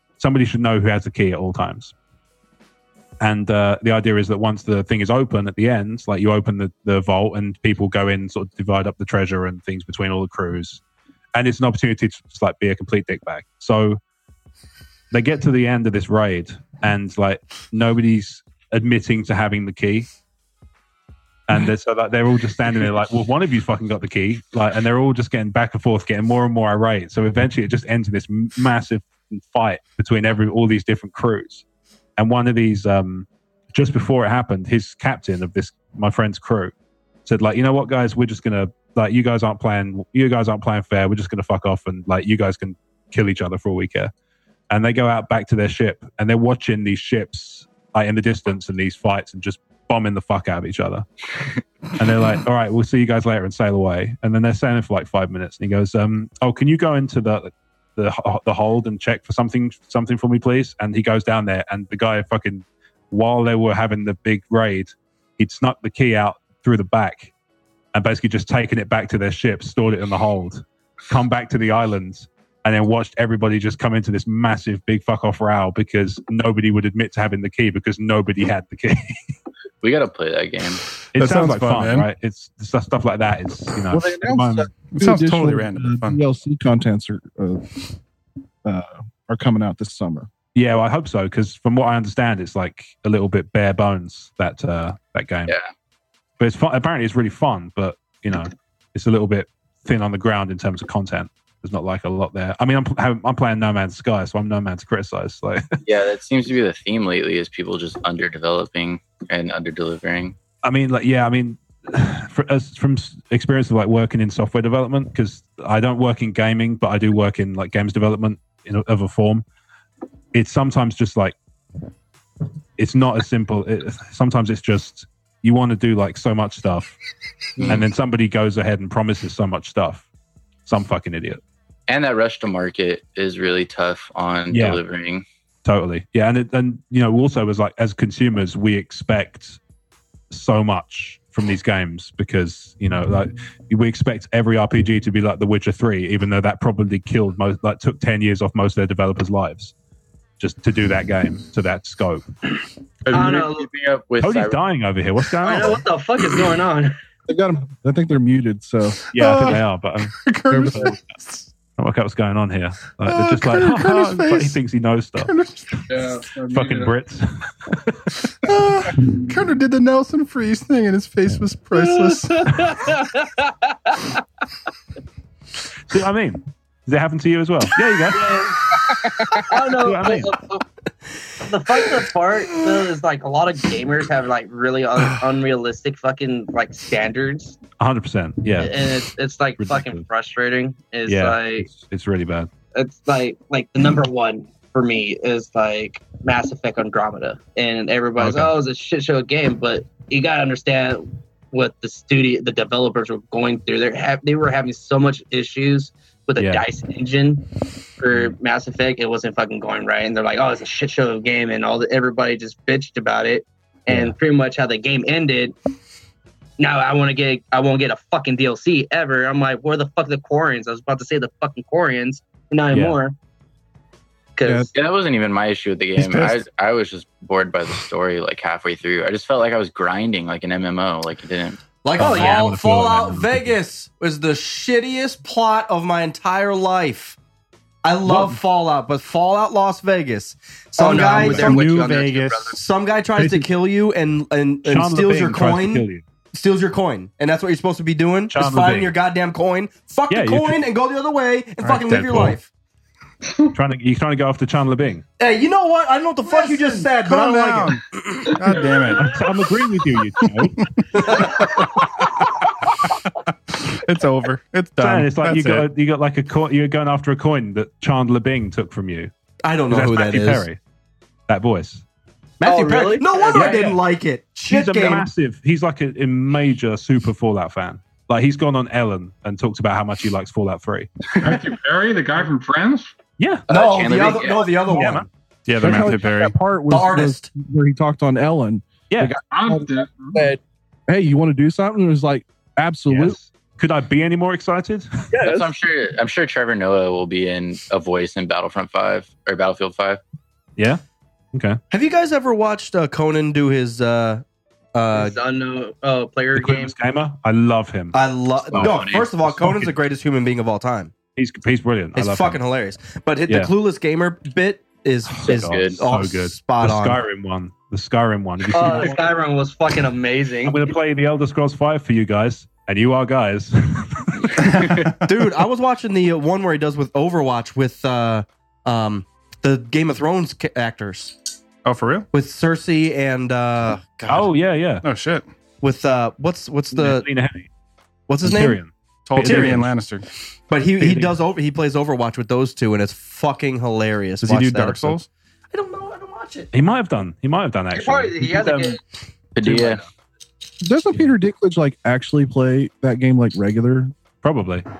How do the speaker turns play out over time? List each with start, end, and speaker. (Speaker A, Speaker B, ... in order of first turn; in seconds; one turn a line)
Speaker A: 0.2-1.9
Speaker A: 3.2-10.8
Speaker A: 11.3-14.0
Speaker A: 15.1-20.1
Speaker A: 21.5-31.6
Speaker A: 32.2-36.7
Speaker A: 37.2-44.1
Speaker A: 44.7-51.0
Speaker A: 52.0-67.3
Speaker A: 67.9-79.2
Speaker B: 79.8-80.8
Speaker A: 81.1-84.7
Speaker C: 81.1-82.1
Speaker D: 83.9-87.9
Speaker C: 84.9-86.2
Speaker D: 88.6-90.3
Speaker A: 90.5-95.5
Speaker A: 96.4-105.6
Speaker B: 105.8-110.4
Speaker A: 110.6-119.4
Speaker A: 120.3-121.3
Speaker A: 122.8-127.0
Speaker A: 127.6-130.0
Speaker A: 130.7-131.4
Speaker B: 131.9-135.2
Speaker A: 134.5-134.8
Speaker A: 135.6-139.6
Speaker A: 140.3-149.7
Speaker A: 150.4-152.2
Speaker B: 153.1-154.6
Speaker E: 153.1-153.7
Speaker A: 154.2-155.8
Speaker E: 155.4-156.9
Speaker D: 157.3-159.0
Speaker A: 159.1-160.2
Speaker C: 159.2-159.6
Speaker C: 160.2-161.5
Speaker D: 160.5-160.9
Speaker A: 160.7-160.9
Speaker A: 161.8-165.3
Speaker C: 163.0-164.6
Speaker C: 165.2-165.8
Speaker F: 165.9-166.9
Speaker A: 166.5-168.1
Speaker C: 168.4-172.5
Speaker E: 172.1-174.2
Speaker A: 175.9-178.4
Speaker E: 178.1-178.7
Speaker E: 179.3-180.6
Speaker A: 179.8-180.3
Speaker E: 181.4-187.6
Speaker A: 187.8-188.8
Speaker E: 188.6-191.7
Speaker A: 189.6-190.0
Speaker A: 191.1-192.5
Speaker E: 192.7-215.5
Speaker A: 198.2-198.5
Speaker A: 206.4-206.6
Speaker A: 213.9-214.1
Speaker E: 216.6-223.2
Speaker A: 222.7-223.0
Speaker E: 224.3-224.7
Speaker B: 224.7-231.6
Speaker C: 225.9-226.4
Speaker G: 231.8-237.2
Speaker A: 232.0-233.5
Speaker E: 232.0-232.3
Speaker G: 237.8-241.6
Speaker A: 238.1-238.4
Speaker E: 240.8-242.6
Speaker C: 240.8-242.5
Speaker G: 242.5-252.5
Speaker A: 243.2-243.5
Speaker A: 244.6-246.0
Speaker A: 248.3-248.9
Speaker A: 250.1-250.6
Speaker A: 251.6-252.4
Speaker F: 253.3-253.5
Speaker A: 253.5-255.0
Speaker G: 255.2-258.2
Speaker C: 256.8-259.2
Speaker F: 258.3-258.9
Speaker A: 259.0-261.2
Speaker G: 260.9-261.6
Speaker C: 263.5-265.7
Speaker A: 264.8-269.1
Speaker G: 269.4-270.5
Speaker A: 269.7-270.6
Speaker A: 271.3-271.8
Speaker G: 272.4-275.1
Speaker E: 272.4-273.6
Speaker A: 273.3-273.8
Speaker A: 274.5-280.9
Speaker F: 281.2-282.9
Speaker A: 283.2-283.4
Speaker B: 283.5-284.5
Speaker G: 283.5-285.1
Speaker A: 284.7-285.1
Speaker C: 285.4-286.4
Speaker D: 285.6-293.2
Speaker G: 286.7-287.3
Speaker A: 288.9-289.1
Speaker F: 289.3-290.3
Speaker A: 292.9-295.0
Speaker D: 295.1-295.5
Speaker B: 295.2-300.0
Speaker A: 301.3-301.6
Speaker G: 301.7-305.2
Speaker E: 304.9-306.7
Speaker A: 306.3-307.9
Speaker G: 307.9-310.9
Speaker B: 308.5-309.1
Speaker A: 308.5-309.7
Speaker A: 311.1-312.4
Speaker G: 311.9-317.0
Speaker B: 315.2-315.8
Speaker A: 315.2-319.1
Speaker E: 318.5-320.6
Speaker A: 320.4-324.5
Speaker B: 324.4-324.9
Speaker C: 324.4-324.9
Speaker G: 325.0-331.2
Speaker C: 331.6-332.1
Speaker G: 332.1-334.3
Speaker A: 334.1-334.8
Speaker C: 334.8-335.2
Speaker G: 335.6-337.1
Speaker A: 336.7-337.5
Speaker G: 338.1-338.6
Speaker A: 338.2-339.7
Speaker C: 339.1-340.0
Speaker G: 339.2-339.6
Speaker G: 340.5-345.0
Speaker A: 340.8-341.1
Speaker C: 344.2-345.1
Speaker G: 345.5-346.5
Speaker A: 346.5-348.8
Speaker E: 347.7-348.8
Speaker B: 349.4-349.8
Speaker A: 349.4-349.7
Speaker D: 350.6-353.9
Speaker A: 354.2-354.6